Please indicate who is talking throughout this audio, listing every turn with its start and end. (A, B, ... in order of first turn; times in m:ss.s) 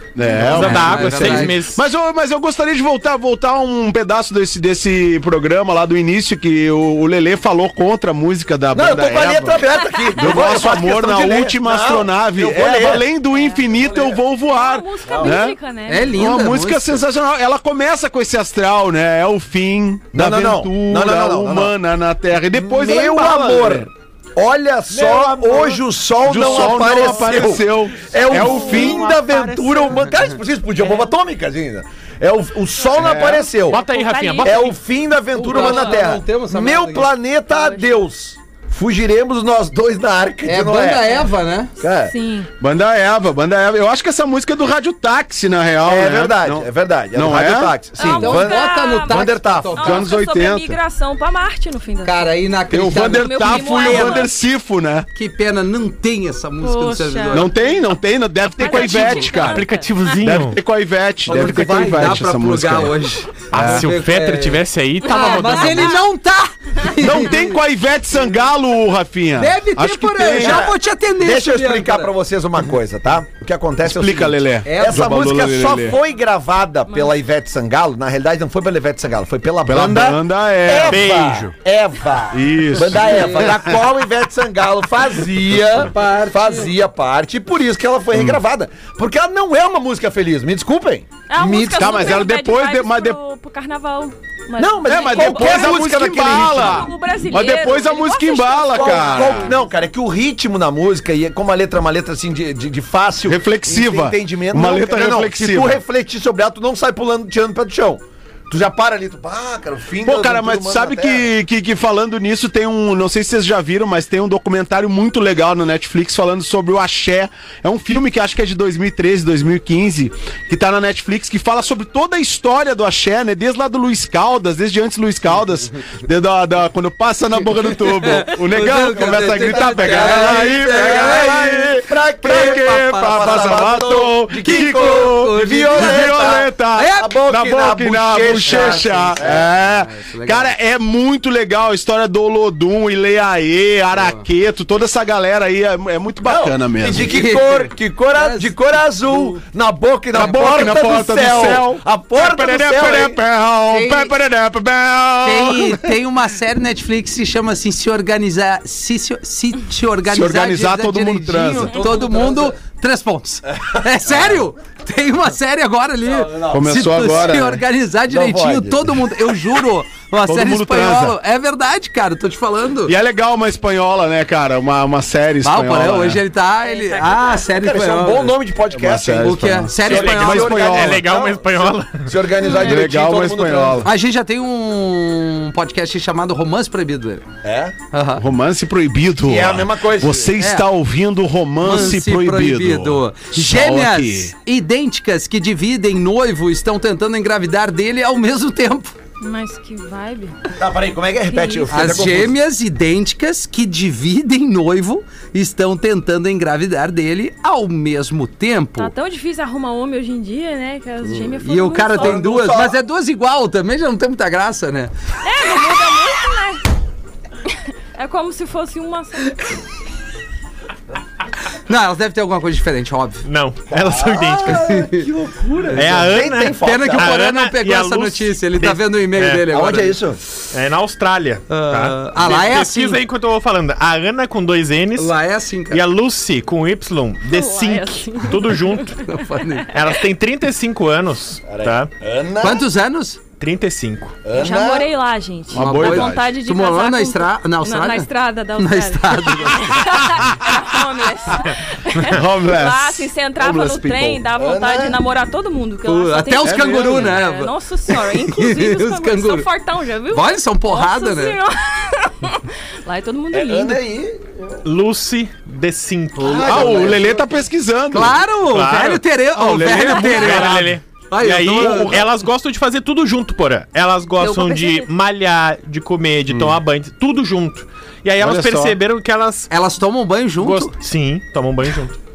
0:00.2-0:15.6 A
0:00.3-0:01.8 B
0:00.4-0:01.6 C
0:08.7-0:13.1 D
0:13.3-0:13.6 E
0:13.7-0:14.2 D
0:14.4-0:16.3 E
0:15.1-0:15.4 D
0:15.9-0:17.0 C
0:16.1-0:23.9 A
0:20.1-0:21.7 D
0:22.5-0:33.8 D
0:24.9-0:30.1 B
0:26.2-0:29.1 A
0:30.8-0:31.1 E
0:33.0-0:33.5 A
0:33.7-0:34.8 B
0:33.7-0:34.7 E
0:34.4-0:41.2 D
0:35.3-0:37.1 C
0:35.5-0:36.0 E
0:37.5-0:38.0 E
0:40.4-0:41.7 C
0:41.8-0:42.2 D
0:42.1-0:42.5 E
0:42.6-0:47.8 A
0:45.8-0:49.9 D
0:48.0-0:54.3 E
0:48.0-0:50.1 C
0:49.8-0:50.8 A
0:52.0-0:54.2 C
0:52.7-0:55.1 A
0:55.1-0:57.5 C
0:56.6-0:57.6 E
0:57.3-0:59.7 A
0:58.6-1:00.2 E
0:58.6-1:00.6 B
1:00.2-1:03.0 A
1:01.3-1:07.6 C
1:01.5-1:02.0 D
1:03.5-1:03.9 A
1:03.5-1:06.0 B
1:05.1-1:06.0 E
1:07.0-1:10.7 A
1:09.4-1:12.1 C
1:10.3-1:31.1 D
1:13.8-1:16.0 A
1:14.6-1:15.1 C
1:19.6-1:21.1 A
1:20.9-1:21.5 B
1:22.3-1:23.8 A
1:22.8-1:23.5 C
1:25.8-1:26.7 C
1:28.1-1:28.4 A
1:31.3-1:39.6 E
1:31.4-1:33.2 A
1:34.6-1:36.9 D
1:34.8-1:39.6 A
1:38.7-1:51.2 D
1:43.2-1:45.8 A
1:50.0-2:27.1 A
2:07.6-2:11.7 C
2:08.9-2:19.4 D
2:12.2-2:13.7 C
2:14.3-2:17.2 C
2:18.4-2:20.5 C
2:23.9-2:24.2 C
2:26.2-2:33.2 D
2:27.0-2:28.5 C
2:29.1-2:29.4 C
2:30.1-2:35.9 A
2:33.7-2:34.1 C
2:35.2-2:52.9 C
2:40.0-2:41.8 A
2:41.7-2:42.5 D
2:43.5-2:44.4 D
2:46.0-2:47.4 D
2:46.5-2:47.6 A
2:48.1-2:49.2 D
2:50.2-2:51.2 A
2:52.8-2:56.2 A
2:55.4-2:58.4 C
2:56.6-2:57.5 E
2:57.5-3:03.9 D
2:58.7-3:01.0 A
2:59.2-3:00.5 C
2:59.8-3:02.1 B
3:02.4-3:02.8 E
3:02.5-3:03.9 A
3:03.8-3:07.2 C
3:07.4-3:07.7 D
3:07.9-3:08.2 C
3:08.2-3:14.3 A
3:09.2-3:10.3 D
3:10.4-3:10.7 C
3:11.6-3:18.9 C
3:19.2-3:20.4 E
3:20.6-3:22.3 D
3:21.3-3:22.0 E
3:21.7-3:28.9 C
3:28.8-3:32.2 E
3:31.1-3:34.9 C
3:32.0-3:32.8 D
3:35.2-3:36.6 E
3:37.4-3:39.4 E
3:41.7-3:43.2 C
3:43.2-3:44.7 B
3:43.7-3:47.2 D
3:44.5-3:45.1 C
3:45.7-3:50.0 C
3:45.7-3:49.4 B
3:49.5-3:50.2 D
3:50.5-3:55.1 B
3:51.5-3:53.0 C
3:55.0-3:55.8 C
3:55.7-3:59.0 B
3:57.2-3:59.4 E
3:59.0-3:59.7 C
3:59.7-4:01.9 B
4:01.5-4:02.7 D
4:02.4-4:03.2 C
4:03.4-4:04.2 B
4:04.2-4:04.9 D
4:04.3-4:23.8 E
4:05.5-4:06.3 A
4:05.5-4:10.0 C
4:12.0-4:14.2 A
4:14.3-4:15.0 D
4:15.8-4:19.5 C
4:16.4-4:17.2 A
4:20.1-4:21.4 C
4:23.3-4:24.6 D
4:24.6-4:27.0 B
4:26.2-4:27.4 D
4:26.3-4:27.0 C
4:26.4-4:28.2 A
4:27.9-4:32.1 C
4:28.4-4:29.0 B
4:29.3-4:30.7 A
4:29.6-4:39.5 B
4:31.6-4:32.0 A
4:34.2-4:34.9 E
4:36.3-4:36.6 A
4:38.2-4:38.8 A
4:39.5-4:40.7 C
4:40.4-4:42.0 B